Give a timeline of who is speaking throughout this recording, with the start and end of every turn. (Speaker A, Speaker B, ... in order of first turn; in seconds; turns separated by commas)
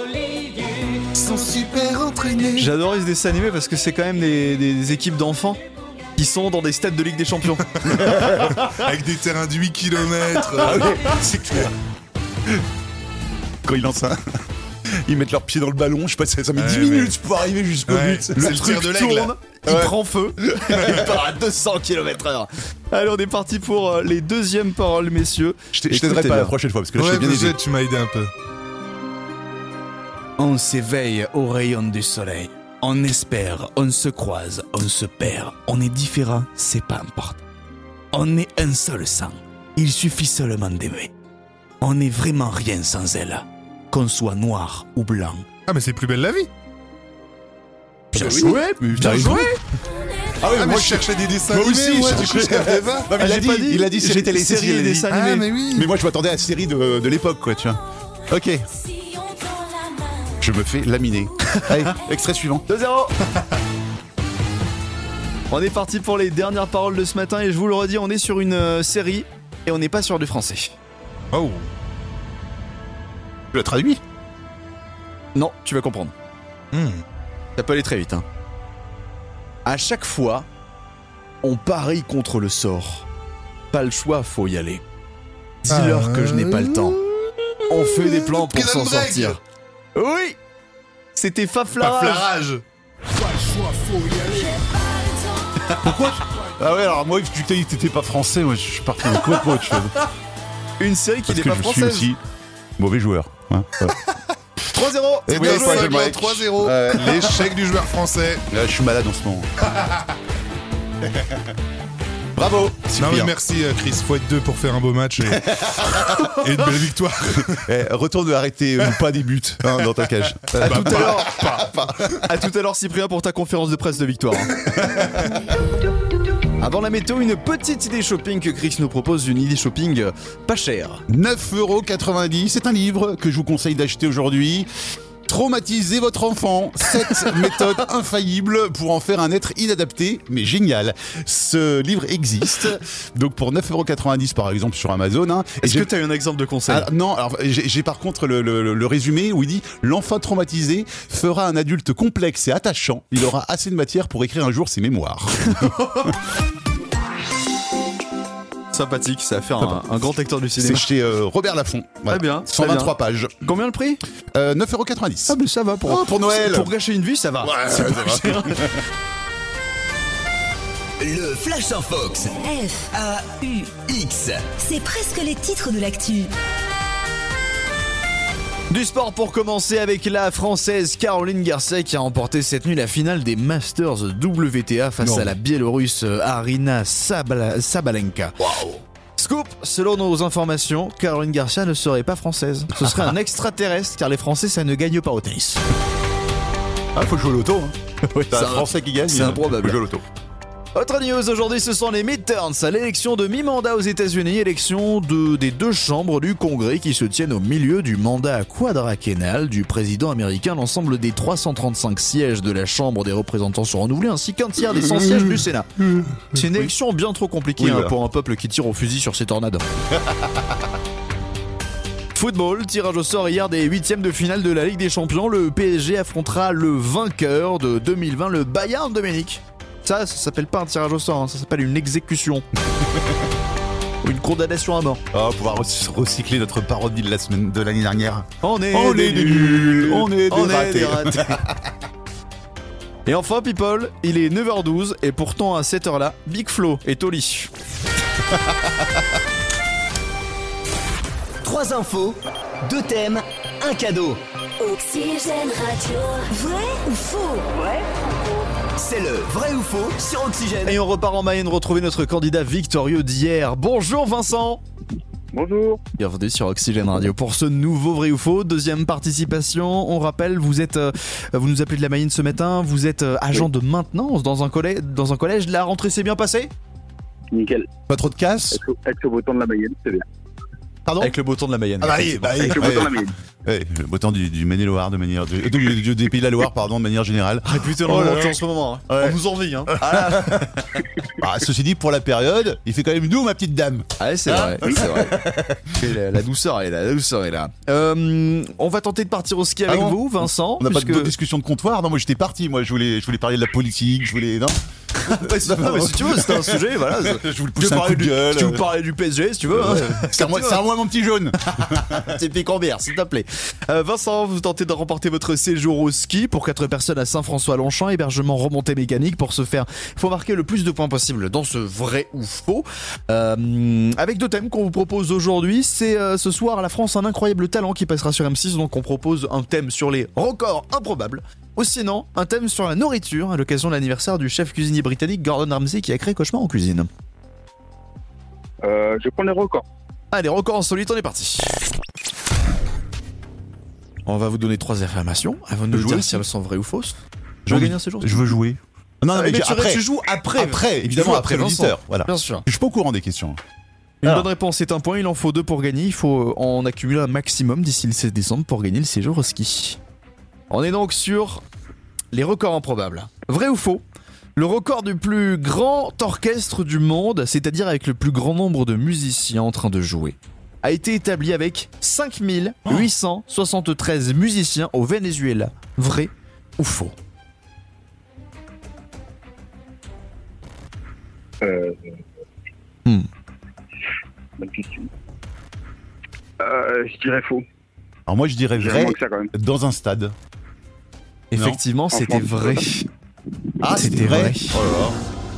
Speaker A: 1.2-2.5, Speaker B: 1.2-2.6, Speaker C: 2.6-5.6, Speaker C: 6.2-8.2, Speaker A: 7.8-11.7, Speaker B: 8.1-8.5, Speaker B: 10.6-11.7, Speaker B: 13.7-14.2, Speaker B: 15.0-18.8, Speaker A: 16.6-17.1, Speaker A: 17.9-19.3, Speaker C: 18.4-26.5, Speaker B: 19.7-21.0, Speaker B: 25.7-27.6, Speaker A: 27.0-28.3, Speaker C: 30.4-37.4, Speaker C: 38.1-41.1, Speaker C: 41.8-45.5, Speaker A: 45.7-46.5, Speaker B: 48.1-49.5, Speaker C: 48.1-49.6, Speaker B: 50.4-58.7, Speaker A: 50.4-53.1, Speaker C: 53.2-55.5, Speaker A: 55.1-55.9, Speaker D: 59.0-60.3, Speaker B: 60.4-62.6, Speaker C: 62.7-63.1, Speaker C: 65.5-70.8, Speaker A: 71.3-71.7, Speaker B: 73.5-74.0, Speaker C: 75.3-76.1, Speaker A: 76.7-77.0, Speaker C: 77.6-78.2, Speaker C: 79.7-80.5, Speaker C: 81.4-83.1, Speaker C: 83.7-84.8, Speaker C: 85.6-87.0, Speaker A: 85.7-89.4, Speaker C: 87.7-89.4, Speaker C: 90.0-90.4, Speaker C: 91.2-92.3, Speaker A: 91.8-92.6, Speaker A: 93.4-94.3, Speaker B: 96.6-100.0, Speaker C: 100.8-102.1, Speaker B: 101.3-102.2, Speaker B: 102.8-104.0, Speaker C: 104.7-106.2, Speaker B: 105.3-107.5, Speaker A: 105.3-108.5, Speaker B: 108.5-109.5, Speaker B: 111.0-111.5, Speaker B: 112.4-113.3, Speaker A: 113.0-117.7, Speaker B: 115.3-116.3, Speaker B: 117.5-122.2, Speaker A: 120.5-121.7, Speaker C: 120.6-121.4, Speaker C: 122.2-124.6, Speaker C: 126.6-131.0, Speaker B: 131.1-134.7, Speaker B: 135.3-145.9, Speaker C: 145.6-146.9, Speaker B: 146.7-156.0, Speaker C: 155.5-156.1, Speaker C: 158.7-160.9, Speaker B: 159.6-159.9, Speaker B: 160.6-163.4, Speaker C: 162.1-164.0, Speaker B: 164.3-166.7, Speaker C: 165.3-168.8, Speaker B: 167.4-168.8, Speaker E: 171.0-172.4, Speaker D: 172.4-172.9, Speaker E: 172.9-174.5, Speaker D: 174.6-176.3, Speaker C: 178.7-188.4, Speaker B: 185.0-185.3, Speaker B: 188.4-188.8, Speaker C: 189.2-195.6, Speaker B: 192.8-193.1, Speaker B: 196.9-197.8, Speaker C: 198.1-199.8, Speaker B: 198.3-200.0, Speaker C: 200.8-215.7, Speaker B: 215.0-215.2, Speaker C: 216.3-219.7, Speaker B: 217.6-217.9, Speaker B: 220.0-220.4, Speaker C: 222.2-232.4, Speaker B: 232.8-233.2, Speaker C: 234.0-235.0, Speaker B: 235.1-241.6, Speaker C: 238.4-241.4, Speaker C: 243.1-247.5, Speaker B: 248.5-248.8, Speaker E: 251.4-254.2, Speaker D: 254.6-258.1, Speaker E: 258.8-260.8, Speaker C: 260.7-264.6, Speaker F: 265.3-265.8, Speaker C: 266.0-276.5, Speaker F: 277.3-277.7, Speaker B: 277.9-278.6, Speaker F: 278.5-280.1, Speaker B: 280.9-281.1, Speaker C: 281.0-282.6, Speaker B: 281.8-290.5, Speaker F: 282.4-283.1, Speaker C: 287.5-290.8, Speaker B: 291.2-295.8, Speaker C: 294.0-301.1, Speaker B: 299.7-308.7, Speaker C: 305.0-310.6, Speaker B: 309.5-312.1, Speaker C: 311.9-336.9, Speaker F: 338.6-339.6, Speaker C: 340.1-341.5, Speaker C: 344.1-348.3, Speaker B: 345.7-346.2, Speaker B: 347.5-353.4, Speaker C: 349.1-352.5, Speaker C: 354.0-359.8, Speaker C: 360.5-361.4, Speaker C: 362.1-363.8, Speaker C: 364.4-376.9, Speaker F: 381.4-382.0, Speaker F: 384.4-384.9, Speaker F: 386.4-387.4, Speaker B: 388.1-390.1, Speaker F: 388.6-389.3, Speaker C: 391.3-392.9, Speaker B: 391.4-391.6, Speaker F: 391.9-392.7, Speaker B: 393.6-395.0, Speaker C: 393.7-394.6